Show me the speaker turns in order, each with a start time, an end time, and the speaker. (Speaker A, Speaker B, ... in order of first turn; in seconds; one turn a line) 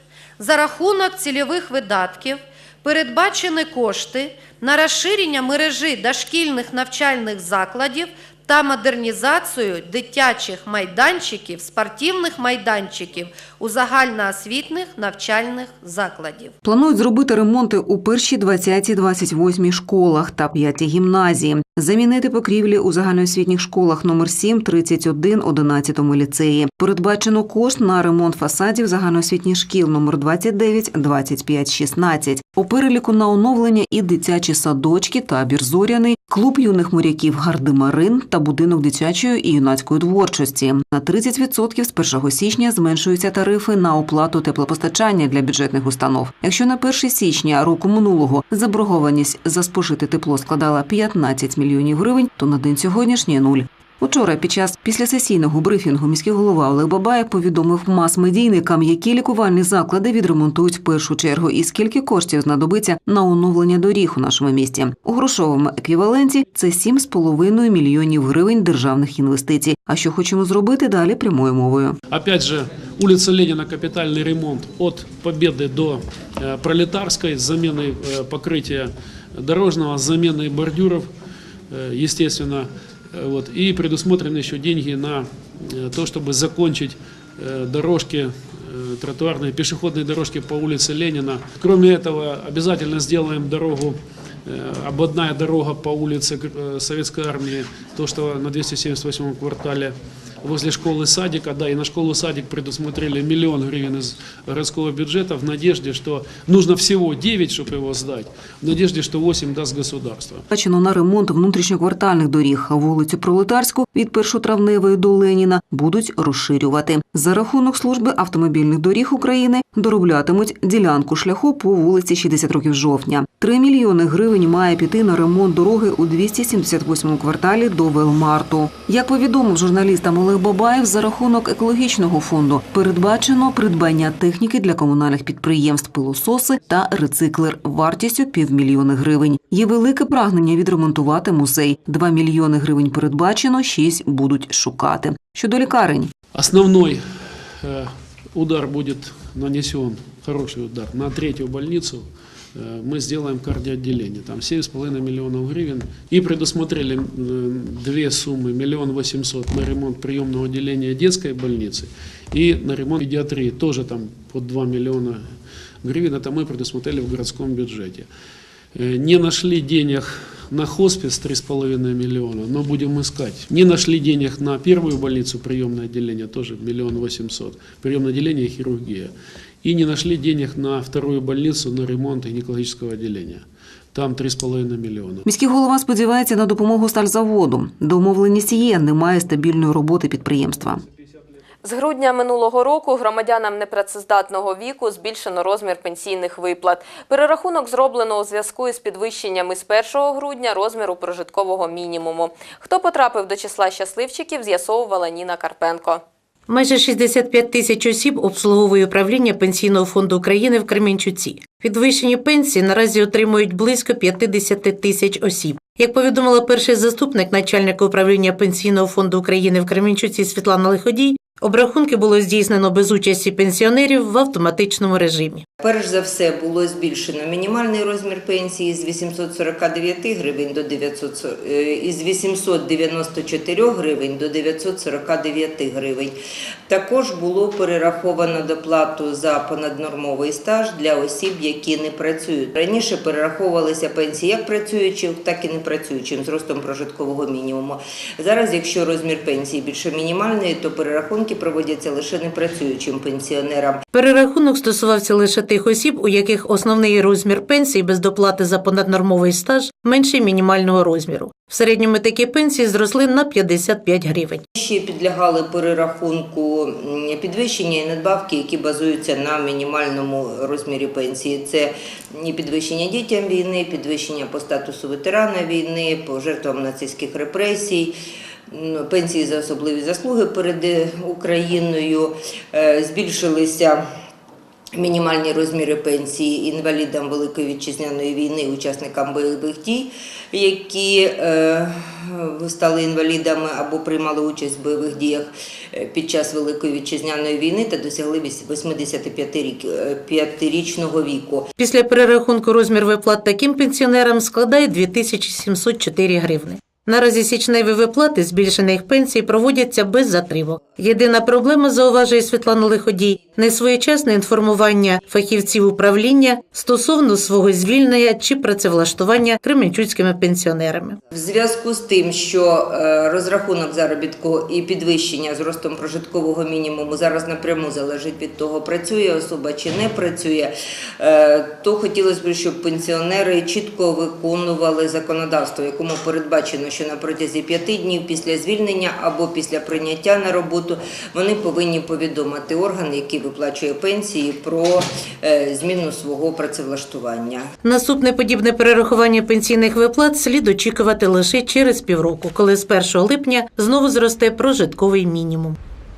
Speaker A: 0.4-16.5
Speaker B: 16.6-72.0
Speaker C: 72.1-81.1
Speaker C: 81.7-110.4
Speaker B: 110.5-146.1
Speaker C: 146.3-147.0
Speaker C: 147.6-168.1
Speaker C: 168.8-185.2
Speaker B: 185.2-190.8
Speaker D: 191.6-206.0
Speaker E: 206.5-225.4
Speaker F: 225.6-253.8
Speaker E: 253.9-264.4
Speaker F: 264.6-277.9
Speaker F: 278.5-283.9
Speaker F: 284.8-301.5
Speaker E: 301.6-321.0
Speaker F: 321.1-347.5
Speaker E: 347.6-355.6